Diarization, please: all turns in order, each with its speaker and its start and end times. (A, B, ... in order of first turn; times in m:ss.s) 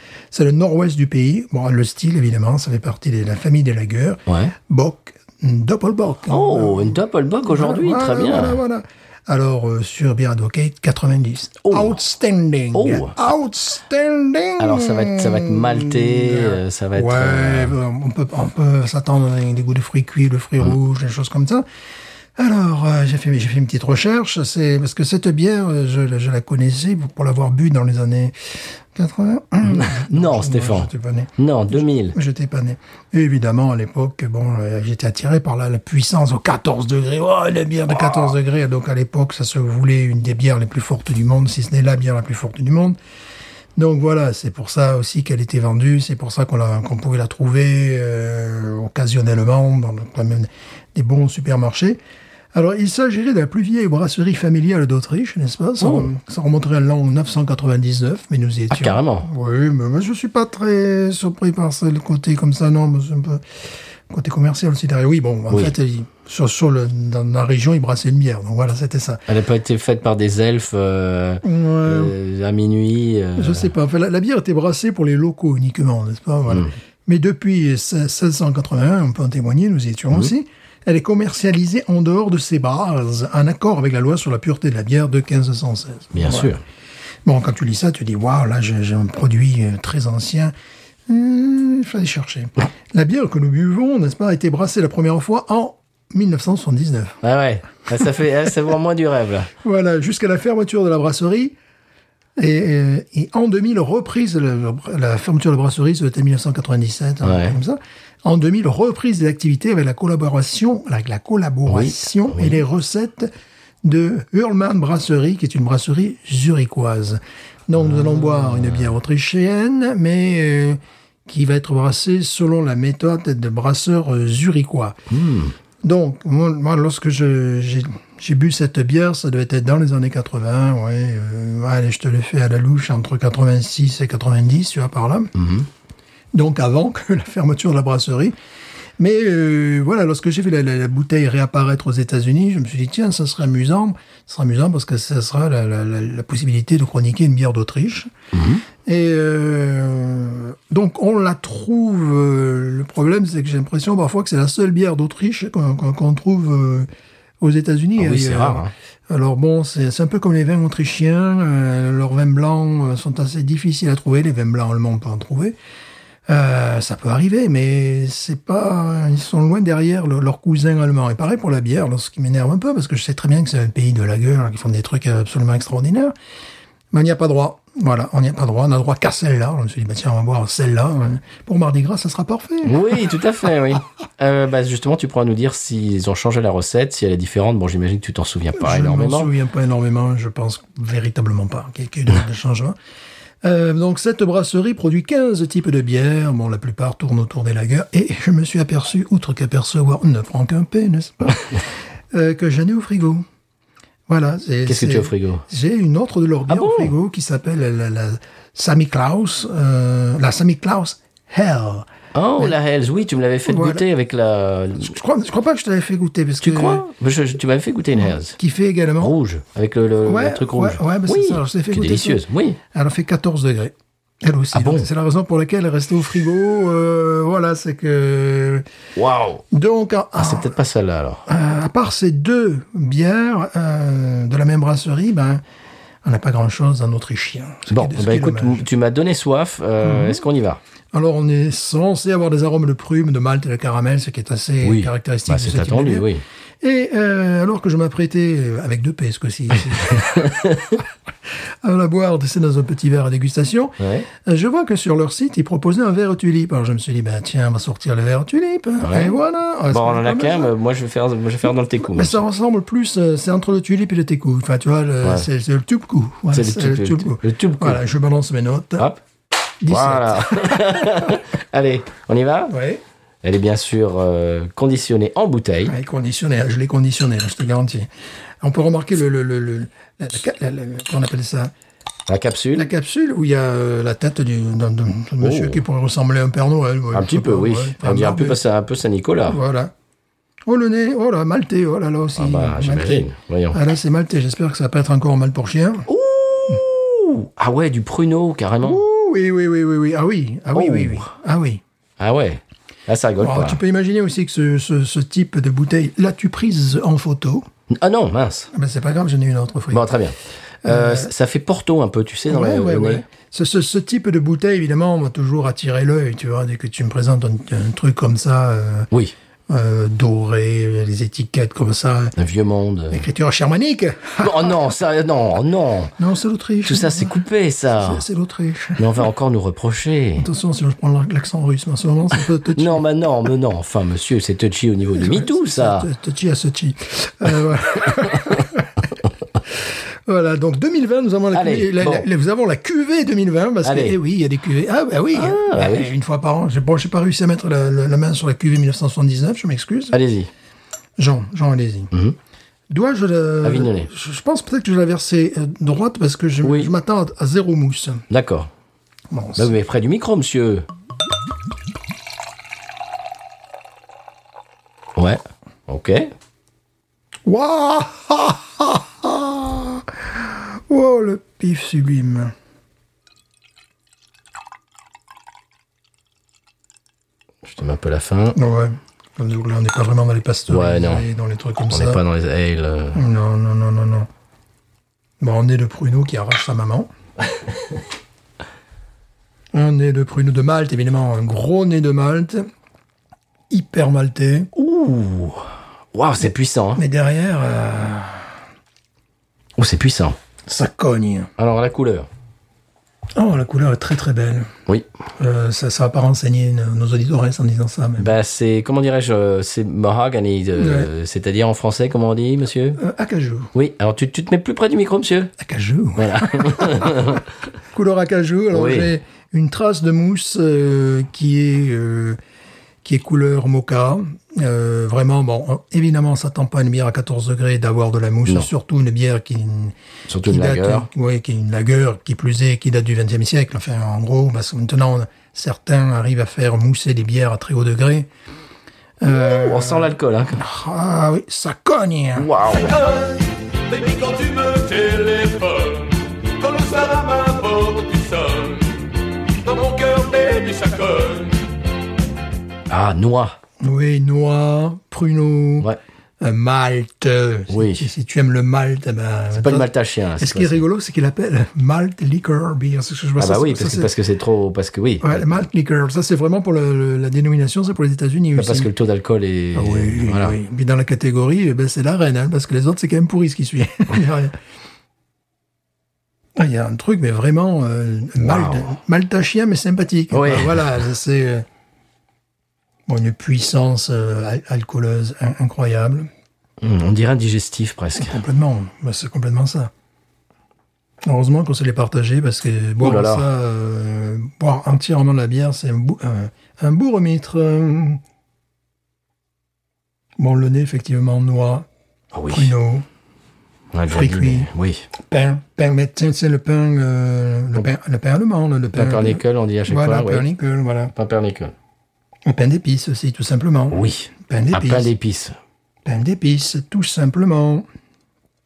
0:00.3-0:21.6 A
0:04.3-0:04.5 B
0:06.3-0:08.6 B
0:11.6-0:12.0 B
0:12.7-0:13.2 B
0:14.6-0:17.7 B
0:22.4-0:43.0 A
0:29.6-0:32.2 B
0:43.8-0:52.0 A
0:52.5-1:03.4 A
0:55.8-0:56.1 B
0:58.7-0:59.3 B
1:04.1-1:09.2 A
1:09.3-1:13.7 B
1:11.4-1:12.1 A
1:13.4-1:26.5 A
1:26.1-1:26.6 B
1:27.2-1:30.5 A
1:31.1-1:37.2 A
1:37.2-1:39.5 B
1:39.6-1:41.5 A
1:42.4-1:53.3 A
1:47.2-1:47.6 B
1:51.7-1:52.6 B
1:53.8-2:05.0 A
1:57.8-1:58.9 B
2:05.1-2:05.5 B
2:05.8-2:15.3 A
2:15.3-2:15.7 B
2:16.3-2:18.3 A
2:19.0-2:28.1 A
2:28.3-2:28.6 B
2:28.8-2:36.9 A
2:37.4-2:45.6 A
2:38.0-2:38.7 B
2:46.3-2:56.1 A
2:56.9-3:03.0 A
3:02.6-3:09.3 B
3:08.5-3:12.8 A
3:13.4-3:23.2 A
3:24.1-3:32.5 A
3:24.6-3:25.4 B
3:26.5-3:26.9 B
3:32.1-3:35.0 B
3:33.4-3:33.8 A
3:34.8-3:36.8 A
3:36.4-3:38.4 B
3:38.0-3:39.1 A
3:39.0-3:42.6 B
3:40.0-3:48.6 A
3:44.5-3:44.9 B
3:49.0-3:49.4 B
3:49.5-3:50.5 A
3:50.2-3:51.2 B
3:51.3-3:55.4 A
3:56.0-3:58.6 A
3:57.7-4:00.6 B
3:59.8-4:00.2 A
4:00.9-4:06.1 A
4:04.6-4:06.2 B
4:06.6-4:10.5 A
4:09.9-4:10.8 B
4:11.6-4:20.5 A
4:13.8-4:14.1 B
4:18.8-4:19.2 B
4:19.7-4:22.2 B
4:21.8-4:28.9 A
4:26.3-4:27.8 B
4:29.6-4:31.2 A
4:29.7-4:32.6 B
4:32.5-4:32.8 A
4:33.2-4:35.7 B
4:35.7-4:37.9 A
4:38.4-4:41.5 A
4:42.1-4:42.7 B
4:42.5-4:48.4 A
4:45.2-4:45.6 B
4:46.9-4:49.4 B
4:49.3-4:49.7 A
4:50.4-4:55.9 A
4:52.2-4:53.6 B
4:55.9-4:58.8 B
4:58.6-5:01.6 A
5:00.5-5:01.1 B
5:02.0-5:03.6 B
5:03.2-5:07.5 A
5:07.7-5:08.5 B
5:08.5-5:09.9 A
5:09.7-5:13.0 B
5:10.6-5:11.1 A
5:12.3-5:18.9 A
5:19.5-5:22.1 A
5:22.2-5:23.0 B
5:22.9-5:24.6 A
5:24.2-5:26.0 B
5:26.0-5:27.1 A
5:26.6-5:28.0 B
5:27.8-5:29.0 A
5:28.8-5:30.3 B
5:30.2-5:32.8 A
5:32.5-5:35.9 B
5:34.9-5:38.9 A
5:39.4-5:50.0 A
5:41.3-5:42.0 B
5:43.6-5:44.0 B
5:45.1-5:45.9 B
5:49.9-5:50.3 B
5:51.0-5:51.9 A
5:52.7-5:58.0 A
5:53.4-5:53.9 B
5:56.4-5:56.7 B
5:58.1-5:58.5 B
5:59.1-5:59.5 A
5:59.4-6:00.6 B
6:05.0-6:06.1 B
6:07.2-6:12.3 A
6:17.4-6:18.4 B
6:18.3-6:22.0 A
6:20.5-6:21.0 B
6:21.6-6:23.0 B
6:22.9-6:24.1 A
6:25.2-6:26.9 A
6:29.5-6:32.5 A
6:33.5-6:34.5 A
6:34.5-6:36.8 B
6:36.8-6:38.3 A
6:39.6-6:40.2 B
6:40.4-6:41.3 A
6:41.4-6:42.1 B
6:43.1-6:44.5 A
6:45.2-6:48.1 A
6:48.0-6:52.8 B
6:50.6-6:50.9 A
6:52.8-6:53.5 A
6:53.5-6:55.3 B
6:55.4-6:57.2 A
6:56.0-6:57.2 B
6:57.7-7:02.2 A
6:58.5-6:58.9 B
7:02.8-7:18.1 A
7:10.1-7:10.9 B
7:19.0-7:22.3 A
7:19.0-7:20.4 B
7:22.2-7:22.8 B
7:22.8-7:23.1 C
7:23.7-7:28.7 C
7:29.4-7:31.4 C
7:32.7-7:33.4 B
7:33.6-7:35.7 A
7:36.2-7:43.9 A
7:37.5-7:37.9 B
7:39.3-7:40.6 B
7:43.2-7:45.4 B
7:45.0-7:48.7 A
7:48.4-7:50.4 B
7:49.5-7:54.4 A
7:56.4-8:01.4 A
7:58.2-7:58.7 B
8:00.1-8:00.8 B
8:02.9-8:06.1 A
8:06.6-8:08.2 B
8:08.0-8:09.7 A
8:11.0-8:18.0 A
8:12.8-8:13.3 B
8:20.2-8:21.7 A
8:22.1-8:22.5 B
8:22.3-8:22.8 A
8:23.7-8:24.9 B
8:23.9-8:30.9 A
8:28.7-8:30.3 B
8:30.9-8:31.5 B
8:32.2-8:34.9 A
8:33.7-8:35.3 B
8:35.8-8:37.6 A